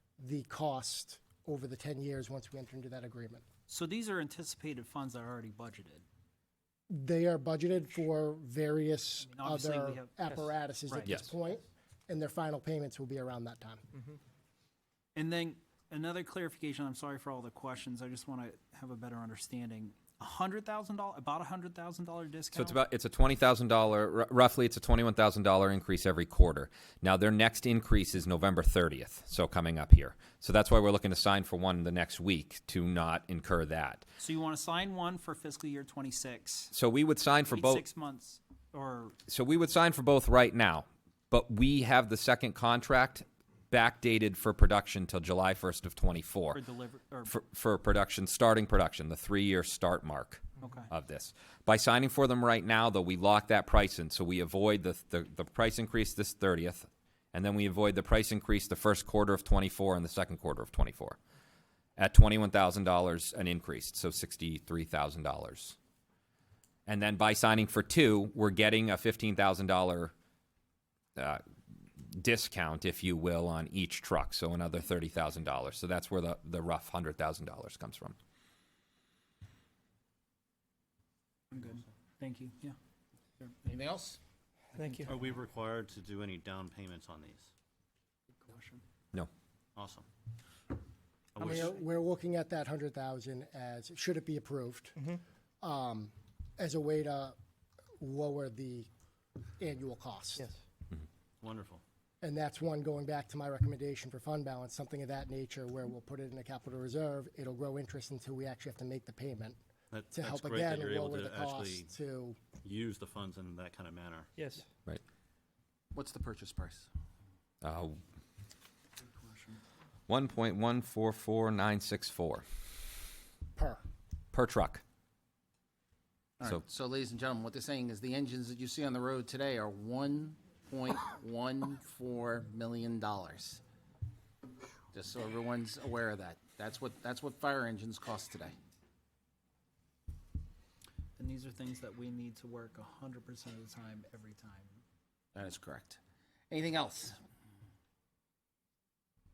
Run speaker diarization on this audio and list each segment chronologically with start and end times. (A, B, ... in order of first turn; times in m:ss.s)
0:00.2-0:03.4 A
0:03.7-0:06.0 B
0:06.9-0:13.8 A
0:09.2-0:11.3 B
0:15.2-0:22.8 B
0:22.5-0:34.0 C
0:34.2-0:36.7 B
0:36.7-0:37.8 C
0:37.5-0:39.2 B
0:39.3-0:46.6 C
0:46.5-0:47.3 B
0:47.3-1:01.2 C
0:50.6-0:50.9 B
1:02.0-1:05.8 C
1:06.9-1:10.1 C
1:11.2-1:11.4 C
1:12.0-1:18.1 C
1:21.5-1:22.7 B
1:23.6-1:24.2 D
1:25.0-1:27.5 E
1:28.4-1:28.8 B
1:29.7-1:30.0 E
1:31.3-1:31.8 E
1:31.4-1:35.0 A
1:35.6-1:37.4 A
1:38.0-1:38.9 A
1:39.6-1:40.5 A
1:41.4-1:41.8 E
1:42.2-1:49.6 A
1:49.9-1:51.9 E
1:50.1-1:52.4 A
1:52.6-1:54.3 E
1:55.9-1:56.9 D
1:57.6-1:58.0 C
1:59.0-1:59.6 B
2:00.1-2:02.4 C
2:03.6-2:03.8 A
2:04.3-2:04.8 C
2:06.4-2:13.6 D
2:14.9-2:18.5 D
2:21.2-2:24.8 B
2:25.3-2:26.0 D
2:26.5-2:27.2 D